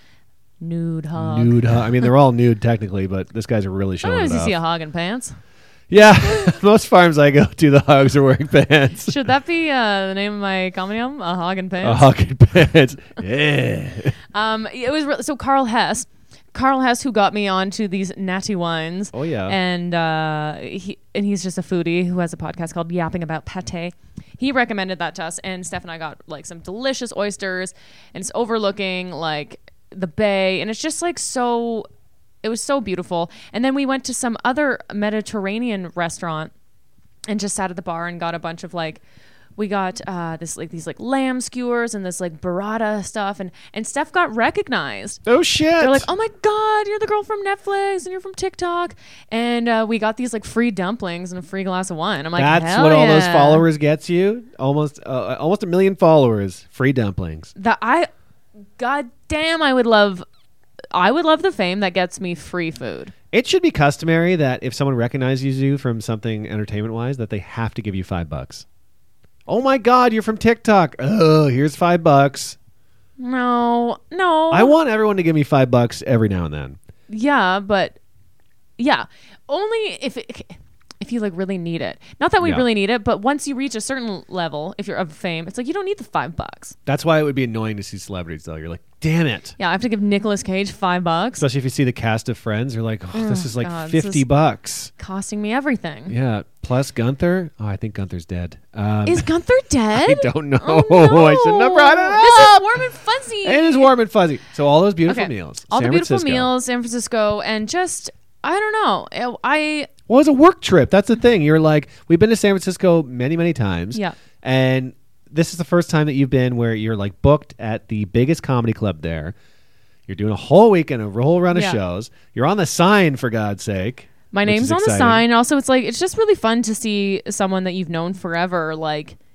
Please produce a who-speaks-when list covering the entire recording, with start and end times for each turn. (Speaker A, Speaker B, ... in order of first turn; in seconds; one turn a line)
Speaker A: 0.6-2.1
Speaker B: 1.2-4.5
Speaker A: 4.0-5.4
Speaker B: 5.9-9.2
Speaker A: 9.0-12.1
Speaker B: 11.8-14.2
Speaker A: 14.3-31.9
Speaker B: 19.1-19.6
Speaker A: 32.4-36.5
Speaker A: 37.3-39.0
Speaker A: 39.6-45.2
Speaker B: 45.3-46.1
Speaker A: 45.8-53.7
Speaker B: 52.4-57.5
Speaker A: 57.5-58.1
Speaker A: 58.8-60.2
Speaker A: 60.9-63.1
Speaker B: 63.3-68.7
Speaker B: 69.5-72.6
Speaker A: 73.2-74.8
Speaker B: 74.5-76.8
Speaker A: 77.1-78.0
Speaker A: 78.8-86.8
Speaker B: 86.9-89.6
Speaker A: 89.6-91.5
Speaker B: 91.4-94.9
Speaker A: 93.1-94.2
Speaker A: 95.0-96.1
Speaker B: 96.1-99.3
Speaker A: 99.1-103.9
Speaker B: 99.9-102.8
Speaker B: 103.4-106.5
Speaker A: 105.1-109.9
Speaker B: 110.1-119.3
Speaker B: 120.1-125.2
Speaker A: 121.5-121.8
Speaker A: 124.3-129.2